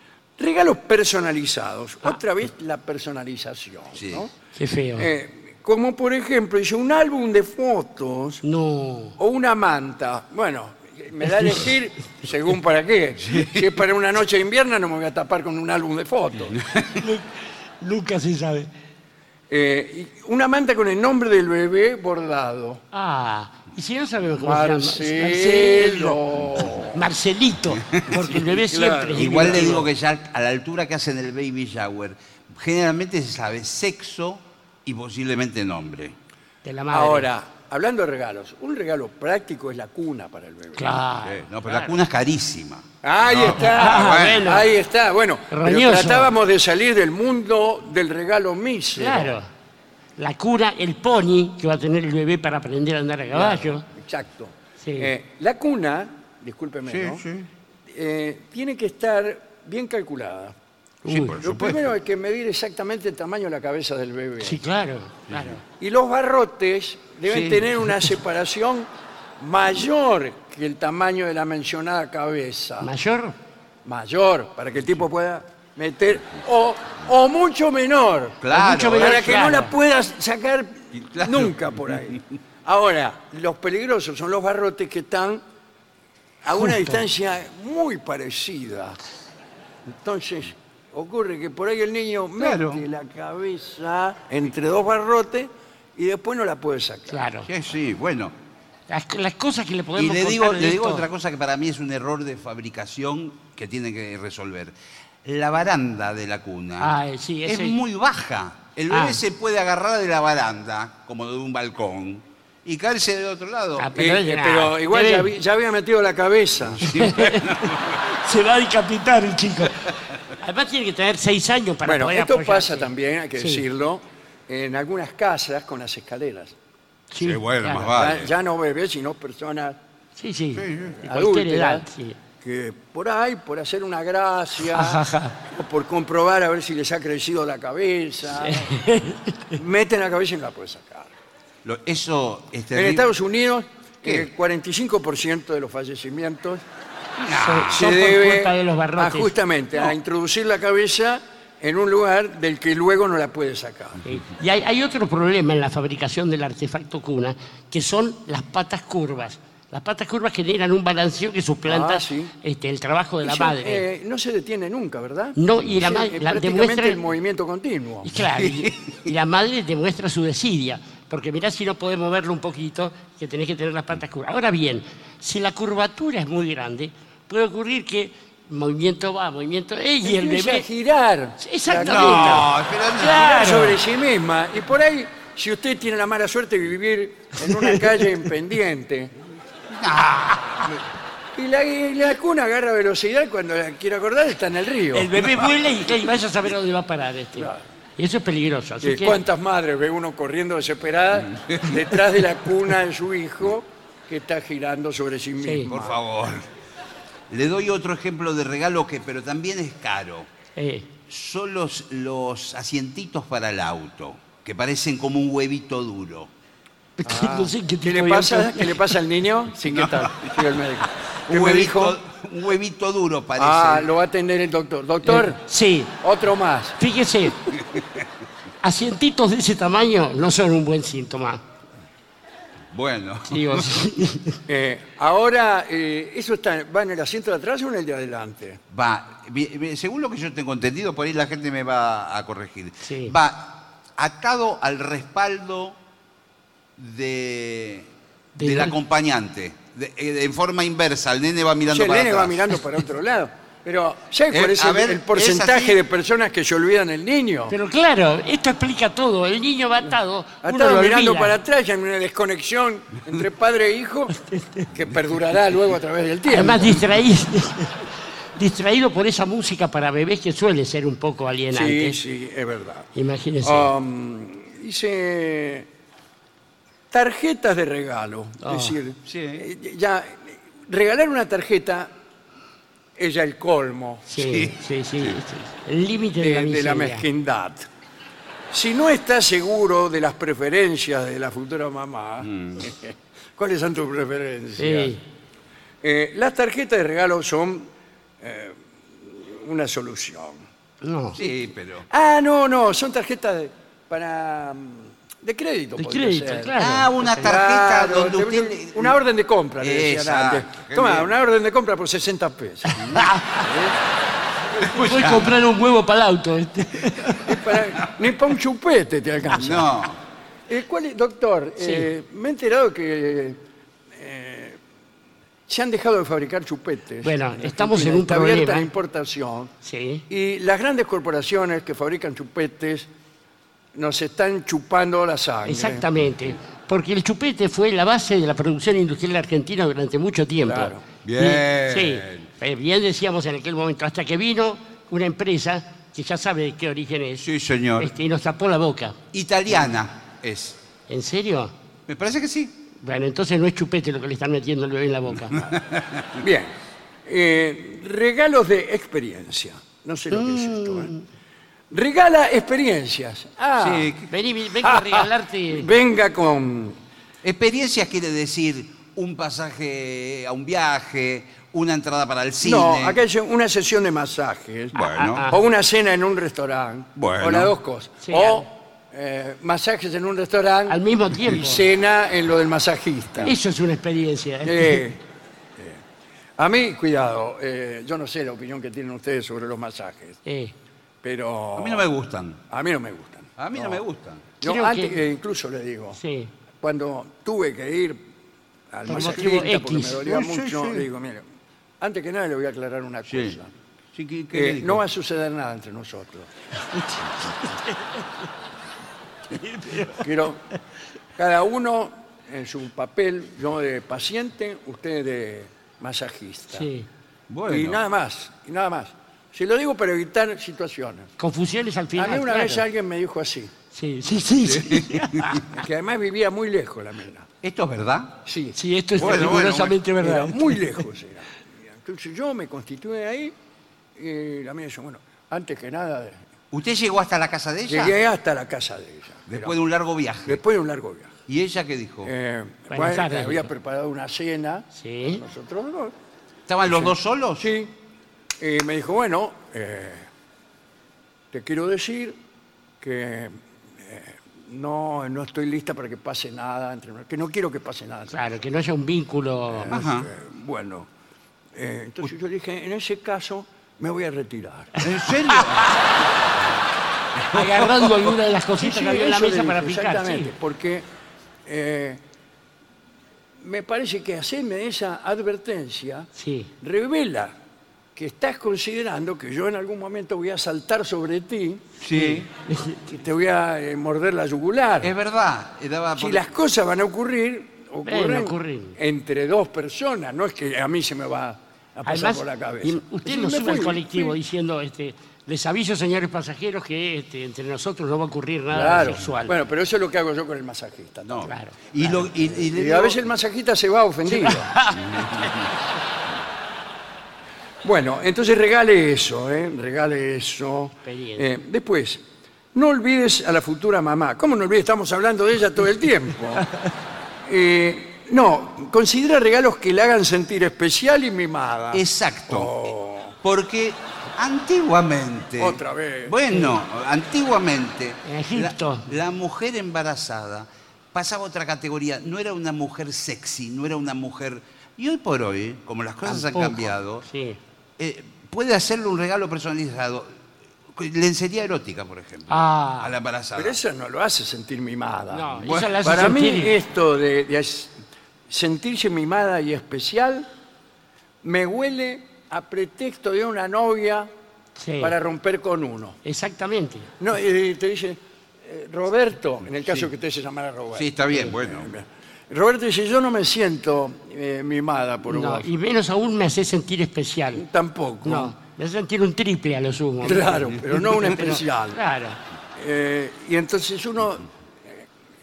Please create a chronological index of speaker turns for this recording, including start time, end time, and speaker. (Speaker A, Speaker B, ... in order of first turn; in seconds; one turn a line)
Speaker A: 0.4-4.3
Speaker B: 4.0-4.2
Speaker C: 4.6-5.1
Speaker A: 5.0-8.4
Speaker C: 8.4-9.2
Speaker A: 9.2-16.6
Speaker B: 13.2-13.7
Speaker B: 16.5-17.0
Speaker C: 16.9-18.7
Speaker A: 19.5-22.8
Speaker C: 22.9-26.2
Speaker A: 24.4-27.0
Speaker C: 26.8-29.8
Speaker B: 27.7-28.0
Speaker A: 28.2-29.8
Speaker B: 29.2-36.1
Speaker C: 36.6-37.3
Speaker A: 36.9-41.0
Speaker C: 40.8-42.0
Speaker B: 41.2-44.5
Speaker A: 43.0-49.3
Speaker C: 43.5-44.7
Speaker C: 45.5-46.3
Speaker C: 49.0-49.5
Speaker C: 50.2-53.9
Speaker A: 53.3-57.2
Speaker C: 54.8-55.1
Speaker B: 56.9-57.5
Speaker A: 57.9-60.5
Speaker C: 61.0-61.4
Speaker B: 61.1-61.9
Speaker A: 61.4-64.6
Speaker C: 64.4-65.6
Speaker B: 65.3-65.5
Speaker A: 65.7-68.9
Speaker B: 67.3-67.7
Speaker A: 69.4-72.9
Speaker C: 72.8-73.3
Speaker A: 73.8-85.4
Speaker B: 78.4-79.5
Speaker C: 78.5-79.7
Speaker B: 80.9-81.5
Speaker A: 86.4-89.0
Speaker C: 86.6-87.0
Speaker A: 89.9-97.2
Speaker B: 92.4-92.8
Speaker C: 97.1-97.5
Speaker B: 97.5-98.3
Speaker C: 98.9-101.0
Speaker B: 100.0-106.9
Speaker C: 106.8-107.8
Speaker B: 107.4-113.9
Speaker C: 108.9-109.2
Speaker C: 113.8-115.3
Speaker A: 114.0-116.9
Speaker B: 116.8-118.0
Speaker C: 116.8-123.6
Speaker A: 121.8-126.5
Speaker C: 127.1-128.0
Speaker B: 127.2-128.3
Speaker A: 127.8-129.8
Speaker C: 130.2-132.2
Speaker B: 130.5-131.0
Speaker A: 130.9-131.8
Speaker A: 132.4-138.7
Speaker C: 134.6-135.4
Speaker C: 138.4-139.6
Speaker A: 139.5-141.1
Speaker B: 141.6-143.1
Speaker A: 142.7-146.6
Speaker B: 147.2-147.8
Speaker C: 147.3-149.3
Speaker A: 147.7-154.0
Speaker C: 154.0-163.8
Speaker A: 161.7-162.3
Speaker A: 163.2-168.1
Speaker C: 165.3-167.0
Speaker C: 168.0-180.7
Speaker B: 168.2-169.1
Speaker A: 180.0-189.1
Speaker C: 181.4-183.8
Speaker B: 181.8-183.4
Speaker C: 187.6-188.0
Speaker B: 189.7-190.8
Speaker A: 191.3-195.2
Speaker C: 194.9-199.2
Speaker A: 197.4-197.6
Speaker A: 198.8-206.0
Speaker B: 201.2-201.7
Speaker C: 205.4-205.7
Speaker B: 205.7-206.5
Speaker B: 207.3-210.3
Speaker C: 210.6-210.9
Speaker B: 211.1-216.3
Speaker C: 217.0-218.8
Speaker A: 217.0-222.0
Speaker B: 219.7-220.3
Speaker B: 221.3-223.9
Speaker A: 223.4-225.4
Speaker C: 225.1-225.9
Speaker A: 226.0-226.8
Speaker C: 226.8-227.5
Speaker B: 227.5-228.1
Speaker C: 228.6-231.4
Speaker B: 232.7-233.9
Speaker C: 233.3-234.4
Speaker A: 234.5-238.6
Speaker B: 238.7-245.8
Speaker C: 242.8-243.1
Speaker B: 246.8-247.9
Speaker C: 248.3-248.8
Speaker B: 248.4-252.5
Speaker A: 251.7-257.5
Speaker B: 254.3-255.8
Speaker C: 257.5-261.3
Speaker A: 260.4-264.2
Speaker C: 264.2-264.7
Speaker A: 264.7-266.8
Speaker C: 266.3-272.0
Speaker A: 271.5-272.9
Speaker C: 272.9-273.7
Speaker A: 273.4-275.7
Speaker A: 276.9-281.9
Speaker C: 278.4-278.8
Speaker B: 279.1-279.4
Speaker A: 282.9-284.1
Speaker C: 284.1-287.1
Speaker B: 284.2-285.2
Speaker A: 286.2-287.7
Speaker A: 288.5-294.9
Speaker B: 292.2-292.7
Speaker C: 294.6-295.0
Speaker A: 295.8-297.7
Speaker A: 298.2-300.4
Speaker C: 300.8-301.2
Speaker B: 301.1-301.9
Speaker A: 301.9-313.8
Speaker C: 305.8-307.2
Speaker B: 306.5-308.9
Speaker B: 309.6-311.1
Speaker C: 312.8-313.4
Speaker B: 314.6-315.3
Speaker C: 314.6-317.6
Speaker A: 317.1-319.7
Speaker B: 319.3-320.0
Speaker A: 320.5-323.4
Speaker C: 321.6-321.9
Speaker A: 323.9-324.6
Speaker A: 325.5-329.5
Speaker C: 327.0-328.7
Speaker C: 329.6-330.0
Speaker A: 330.1-332.9
Speaker A: 333.7-335.8
Speaker C: 335.4-347.3
Speaker A: 340.4-340.8
Speaker B: 341.0-342.3
Speaker B: 347.2-347.9
Speaker C: 347.8-349.0
Speaker B: 349.1-350.6
Speaker C: 350.9-351.5
Speaker B: 351.9-352.6
Speaker C: 352.8-355.5
Speaker B: 355.3-356.2
Speaker A: 356.2-356.5
Speaker A: 357.1-360.9
Speaker C: 360.1-361.0
Speaker A: 361.7-363.9
Speaker B: 363.6-364.1
Speaker C: 364.1-365.7
Speaker A: 364.6-366.8
Speaker B: 367.2-373.0
Speaker A: 372.4-383.3
Speaker B: 374.7-375.3
Speaker C: 374.8-375.4
Speaker B: 377.0-377.5
Speaker C: 378.0-378.4
Speaker C: 380.7-381.6
Speaker C: 383.2-384.8
Speaker A: 384.4-385.0
Speaker A: 386.4-390.2
Speaker C: 390.2-390.5
Speaker A: 391.0-391.9
Speaker B: 391.6-392.4
Speaker A: 392.5-393.8
Speaker B: 393.4-394.2
Speaker A: 394.4-396.0
Speaker C: 394.4-395.0
Speaker C: 396.0-396.3
Speaker A: 396.6-398.1
Speaker A: 398.7-401.2
Speaker C: 398.9-400.0
Speaker B: 398.9-399.2
Speaker B: 400.0-400.9
Speaker A: 401.8-403.5
Speaker B: 403.1-403.4
Speaker B: 403.9-404.8
Speaker A: 404.3-406.3
Speaker C: 406.7-408.1
Speaker C: 409.3-410.1
Speaker A: 409.9-410.4
Speaker A: 411.2-416.7
Speaker C: 416.5-416.9
Speaker B: 417.3-417.8
Speaker A: 417.5-421.1
Speaker C: 421.2-422.6
Speaker A: 421.9-423.5
Speaker C: 423.7-425.5
Speaker B: 424.4-425.4
Speaker A: 425.4-427.3
Speaker B: 427.4-428.2
Speaker A: 428.2-433.3
Speaker C: 428.6-430.8
Speaker B: 429.0-429.7
Speaker A: 434.0-436.2
Speaker B: 436.5-437.9
Speaker A: 437.7-439.5
Speaker B: 439.3-440.4
Speaker A: 440.3-441.1
Speaker B: 441.3-442.1
Speaker A: 442.0-445.9
Speaker C: 442.7-443.5
Speaker C: 444.7-445.2
Speaker B: 446.5-447.5
Speaker A: 446.7-447.7
Speaker A: 448.4-450.1
Speaker A: 451.3-452.1
Speaker A: 452.8-458.3
Speaker C: 458.1-459.8
Speaker A: 459.5-460.9
Speaker B: 459.7-460.1
Speaker A: 461.5-464.7
Speaker B: 464.8-465.7
Speaker C: 465.3-465.7
Speaker C: 467.3-470.3
Speaker B: 467.3-468.1
Speaker A: 468.6-470.8
Speaker A: 471.4-472.0
Speaker A: 473.4-477.3
Speaker C: 476.2-476.5
Speaker A: 477.9-481.7
Speaker B: 481.8-482.3
Speaker C: 481.9-483.0
Speaker A: 482.9-484.9
Speaker B: 484.8-486.2
Speaker A: 486.0-494.1
Speaker C: 487.9-488.8
Speaker C: 491.9-499.3
Speaker A: 498.5-504.6
Speaker B: 501.0-503.1
Speaker C: 501.2-501.6
Speaker C: 504.1-505.3
Speaker B: 504.7-505.5
Speaker A: 507.6-512.0
Speaker C: 510.8-511.2
Speaker A: 512.5-516.5
Speaker A: 517.2-523.1
Speaker B: 521.7-522.5
Speaker B: 523.2-537.0
Speaker A: 525.4-526.3
Speaker C: 528.0-528.9
Speaker C: 536.0-537.4
Speaker B: 537.8-540.2
Speaker B: 540.7-543.6
Speaker C: 542.3-542.9
Speaker A: 543.4-547.7
Speaker C: 545.1-546.5
Speaker B: 545.4-545.8
Speaker A: 548.3-550.3
Speaker A: 551.2-554.1
Speaker C: 554.6-554.9
Speaker A: 554.8-556.0
Speaker C: 556.0-556.9
Speaker A: 557.0-565.5
Speaker B: 560.7-561.7
Speaker C: 565.1-567.4
Speaker A: 567.4-568.3
Speaker C: 568.0-572.2
Speaker A: 570.0-571.8
Speaker A: 572.5-574.8